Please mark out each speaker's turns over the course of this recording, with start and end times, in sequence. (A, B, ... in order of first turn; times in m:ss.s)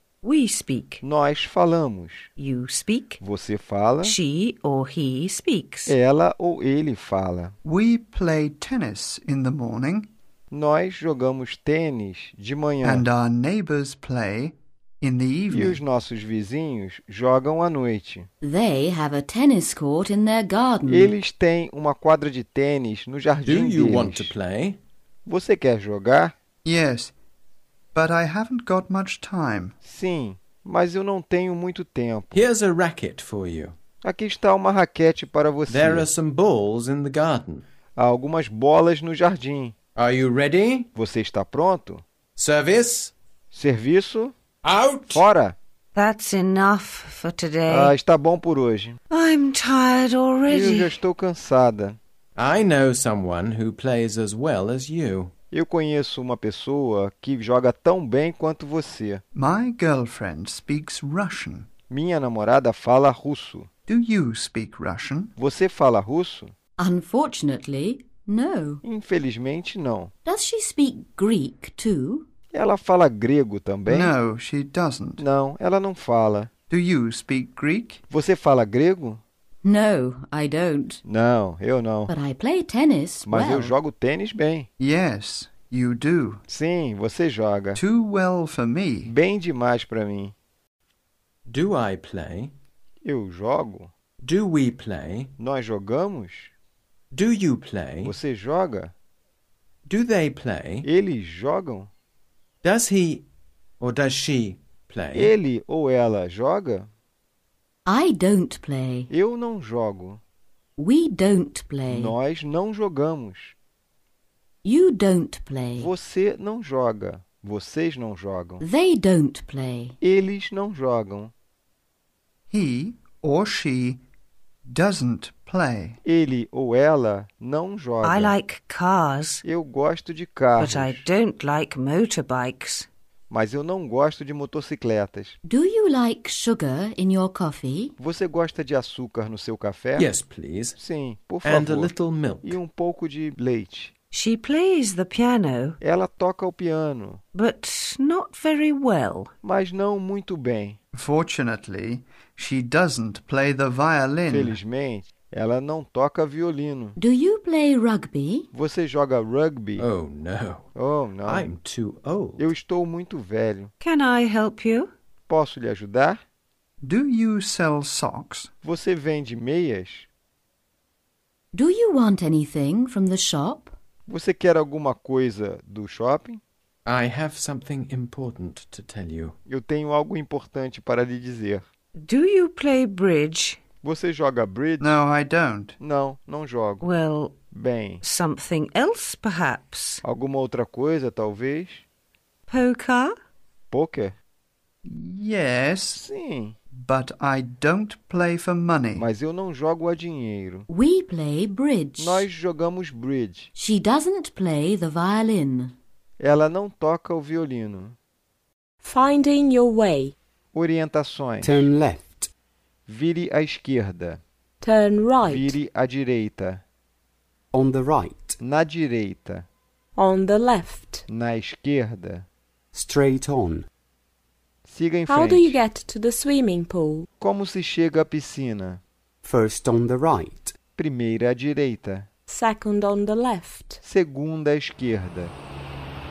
0:00.2-0:01.0 A
0:01.0-0:02.3 B
0:02.4-0:03.2 A
0:03.2-0:04.2 B
0:04.0-0:06.0 A
0:05.9-0:07.6 B
0:07.6-0:10.1 C
0:10.5-0:13.1 B
0:12.8-0:15.8 C
0:15.5-0:18.3 B
0:18.4-0:21.2 D
0:20.9-0:24.3 B
0:23.4-0:24.8 E
0:25.3-0:26.3 B
0:26.6-0:27.1 C
0:27.9-0:29.8 C
0:29.8-0:32.5 B
0:32.3-0:33.8 E
0:34.0-0:36.1 B
0:35.7-0:37.6 E
0:38.0-0:39.8 B
0:40.0-0:40.9 E
0:41.0-0:42.0 B
0:42.4-0:43.1 E
0:43.5-0:44.3 B
0:44.6-0:45.2 E
0:45.1-0:45.6 B
0:46.0-0:47.9 A
0:47.7-0:49.0 B
0:49.1-0:51.0 A
0:50.5-0:52.0 B
0:52.4-0:55.3 E
0:55.5-0:59.2 B
0:59.4-1:01.7 C
1:01.9-1:03.7 B
1:03.9-1:05.3 C
1:05.4-1:06.5 B
1:06.8-1:08.8 D
1:08.8-1:10.1 B
1:10.2-1:12.3 D
1:12.5-1:14.2 B
1:13.9-1:15.2 C
1:15.2-1:16.5 B
1:16.7-1:18.0 C
1:18.1-1:19.2 B
1:19.6-1:21.0 D
1:21.0-1:22.1 B
1:22.1-1:23.8 D
1:23.2-1:24.7 B
1:24.8-1:26.4 C
1:26.5-1:27.8 B
1:27.8-1:29.2 C
1:29.0-1:30.3 B
1:31.5-1:32.5 E
1:33.0-1:33.9 B
1:34.2-1:35.3 E
1:35.4-1:36.5 B
1:37.1-1:38.2 E
1:38.0-1:38.9 B
1:39.9-1:40.9 E
1:40.8-1:41.9 B
1:42.6-1:43.3 E
1:43.8-1:45.3 E
1:45.1-1:46.9 B
1:47.9-1:49.1 D
1:49.1-1:50.2 B
1:50.8-1:52.2 D
1:51.9-1:53.6 B
1:54.6-1:55.9 D
1:55.8-1:58.6 B
1:58.6-2:00.0 D
2:00.0-2:01.3 B
2:02.5-2:04.0 C
2:04.7-2:06.0 C
2:06.0-2:08.4 B
2:08.0-2:09.4 A
2:09.4-2:11.1 B
2:10.6-2:12.9 A
2:13.3-2:15.4 B
2:15.5-2:18.0 D
2:18.0-2:20.1 B
2:20.0-2:20.8 E
2:20.8-2:23.9 B
2:21.4-2:22.6 E
2:24.1-2:25.8 A
2:25.8-2:27.2 B
2:27.3-2:29.3 A
2:29.4-2:30.8 B
2:31.0-2:34.6 C
2:34.3-2:37.0 B
2:37.0-2:38.5 D
2:38.5-2:39.9 B
2:39.8-2:40.7 E
2:40.8-2:41.5 B
2:41.2-2:42.5 E
2:42.4-2:43.7 B
2:43.8-2:44.9 A
2:45.3-2:46.2 B
2:46.8-2:48.5 C
2:48.6-2:50.1 B
2:51.5-2:53.7 D
2:54.1-2:56.4 B
2:56.9-2:59.4 E
2:59.5-3:01.6 B
3:02.0-3:03.6 A
3:03.8-3:05.0 B
3:04.8-3:05.8 C
3:05.8-3:06.8 B
3:06.8-3:07.3 A
3:07.5-3:08.0 B
3:08.0-3:10.0 A
3:10.0-3:11.8 B
3:12.5-3:13.1 A
3:13.7-3:14.2 B
3:14.8-3:16.0 C
3:15.9-3:16.6 B
3:16.7-3:19.1 C
3:19.0-3:20.7 B
3:20.7-3:22.3 D
3:22.0-3:23.5 B
3:23.6-3:25.8 D
3:26.2-3:28.0 B
3:28.8-3:30.1 F
3:30.5-3:31.7 B
3:31.4-3:32.3 G
3:32.9-3:34.2 B
3:34.6-3:35.6 F
3:35.2-3:36.6 B
3:37.5-3:38.4 G
3:38.4-3:39.5 B
3:40.0-3:41.0 F
3:41.1-3:42.2 B
3:42.7-3:43.7 G
3:44.6-3:45.6 B
3:45.1-3:47.1 F
3:47.2-3:48.8 B
3:49.2-3:50.5 G
3:50.8-3:52.1 B
3:52.3-3:53.8 F
3:53.8-3:55.3 B